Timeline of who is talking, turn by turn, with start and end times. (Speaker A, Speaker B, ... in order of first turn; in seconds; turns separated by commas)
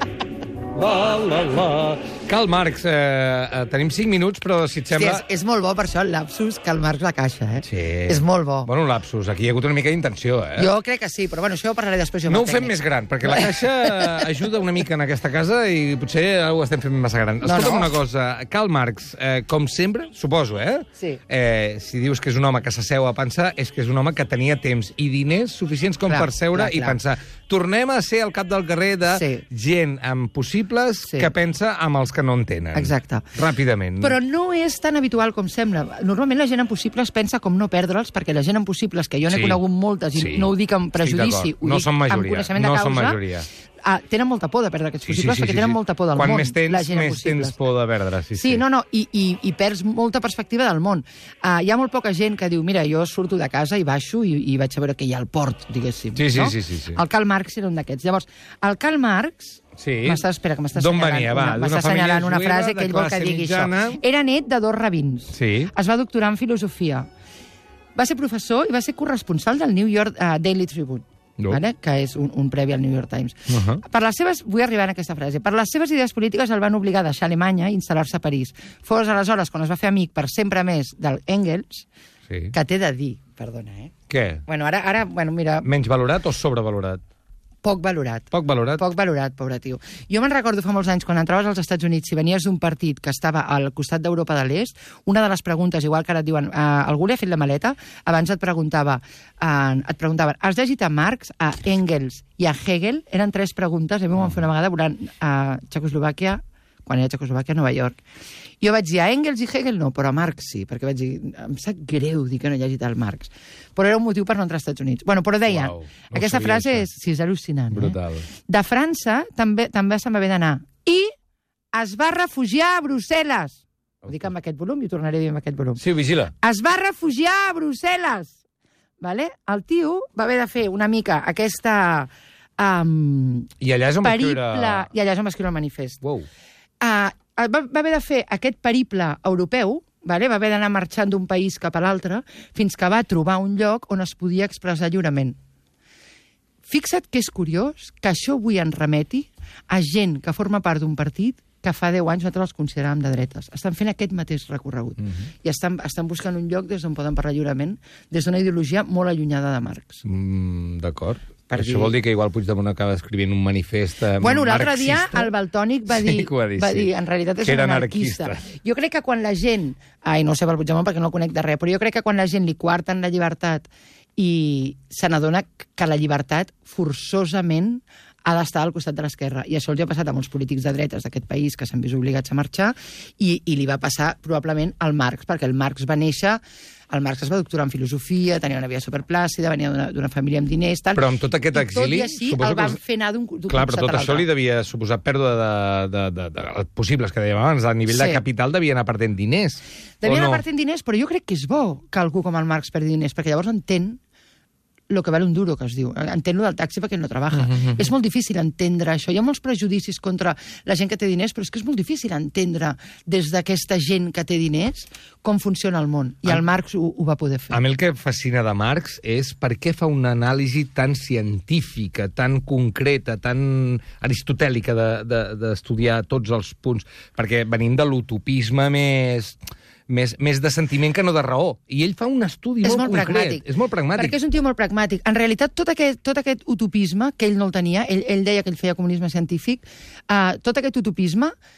Speaker A: 0.7-5.2, Speaker B: 4.9-8.7, Speaker A: 7.6-10.7, Speaker B: 10.6-14.3, Speaker A: 12.3-34.2, Speaker B: 17.4-17.9, Speaker B: 26.1-27.0, Speaker B: 29.1-29.4, Speaker B: 32.7-33.3, Speaker B: 34.0-43.2, Speaker A: 39.3-39.6, Speaker A: 40.1-43.5, Speaker B: 43.8-47.5, Speaker A: 45.0-48.6, Speaker B: 48.3-67.1, Speaker A: 56.1-57.0, Speaker A: 59.8-60.2, Speaker A: 60.7-64.0, Speaker A: 65.3-65.7, Speaker B: 68.0-81.9, Speaker A: 73.5-73.8, Speaker A: 82.3-82.5, Speaker B: 82.5-83.9, Speaker A: 84.1-84.4, Speaker B: 84.5-85.7, Speaker A: 85.6-87.0, Speaker B: 87.6-108.0, Speaker A: 88.3-88.8, Speaker B: 108.6-121.1, Speaker A: 115.5-116.8, Speaker A: 117.7-118.3, Speaker B: 121.7-125.8, Speaker A: 125.8-126.3, Speaker B: 126.4-128.3, Speaker B: 129.0-133.5, Speaker A: 133.6-134.9, Speaker B: 134.0-136.0, Speaker A: 136.0-136.3, Speaker B: 136.8-145.4, Speaker B: 146.7-160.0, Speaker A: 160.0-165.3, Speaker B: 161.5-162.0, Speaker B: 164.2-194.3, Speaker A: 165.9-166.9, Speaker A: 167.4-168.4, Speaker A: 190.9-192.8, Speaker A: 193.5-200.4, Speaker B: 197.9-198.2, Speaker B: 200.0-204.0, Speaker B: 204.9-217.6, Speaker A: 207.3-207.9, Speaker A: 217.5-229.4, Speaker A: 229.9-234.2, Speaker B: 232.6-233.4, Speaker B: 233.9-241.3